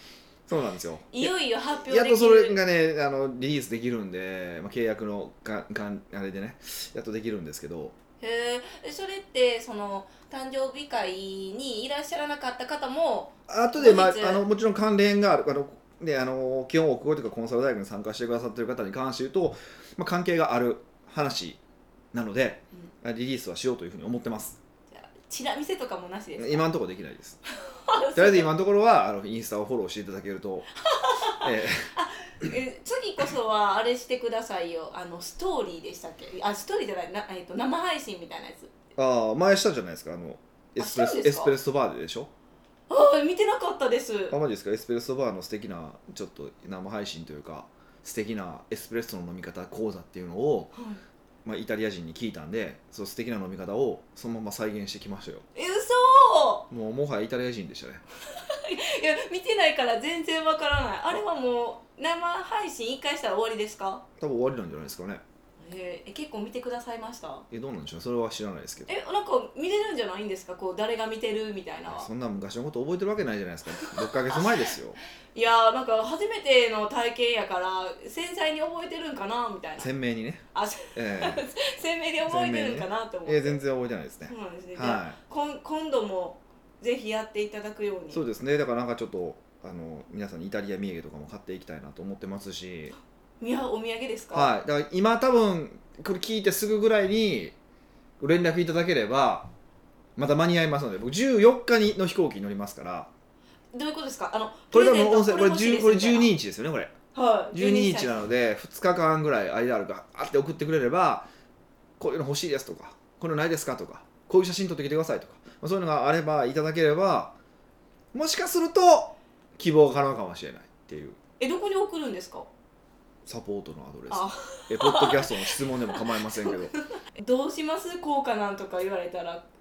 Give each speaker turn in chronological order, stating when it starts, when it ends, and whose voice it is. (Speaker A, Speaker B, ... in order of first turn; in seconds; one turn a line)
Speaker A: 0.5-7.9
Speaker B: 1.1-2.6
Speaker B: 8.2-14.4
Speaker A: 13.5-21.6
Speaker A: 22.1-24.6
Speaker B: 24.9-26.6
Speaker A: 26.4-27.4
Speaker B: 27.5-28.5
Speaker A: 28.1-30.7
Speaker B: 30.8-38.7
Speaker A: 31.3-31.9
Speaker A: 39.0-42.3
Speaker B: 40.8-41.5
Speaker B: 42.9-44.3
Speaker A: 44.3-50.7
Speaker B: 50.7-51.0
Speaker A: 51.4-55.5
Speaker B: 55.5-56.7
Speaker A: 56.7-58.0
Speaker B: 58.3-64.0
Speaker A: 64.2-65.2
Speaker B: 65.6-67.5
Speaker A: 67.5-68.9
Speaker B: 68.9-72.1
Speaker A: 71.9-75.0
Speaker B: 73.8-74.7
Speaker B: 75.3-79.9
Speaker A: 79.8-80.4
Speaker B: 80.5-83.6
Speaker A: 80.9-81.5
Speaker A: 82.2-85.2
Speaker B: 84.3-88.2
Speaker A: 88.1-92.9
Speaker B: 93.4-94.5
Speaker A: 94.3-97.5
Speaker A: 98.2-99.5
Speaker A: 100.2-103.1
Speaker B: 103.7-106.3
Speaker A: 104.7-106.9
Speaker B: 107.1-108.2
Speaker A: 107.5-111.3
Speaker A: 112.0-117.3
Speaker A: 118.1-121.2
Speaker B: 121.4-122.5
Speaker A: 123.2-126.7
Speaker B: 124.1-129.4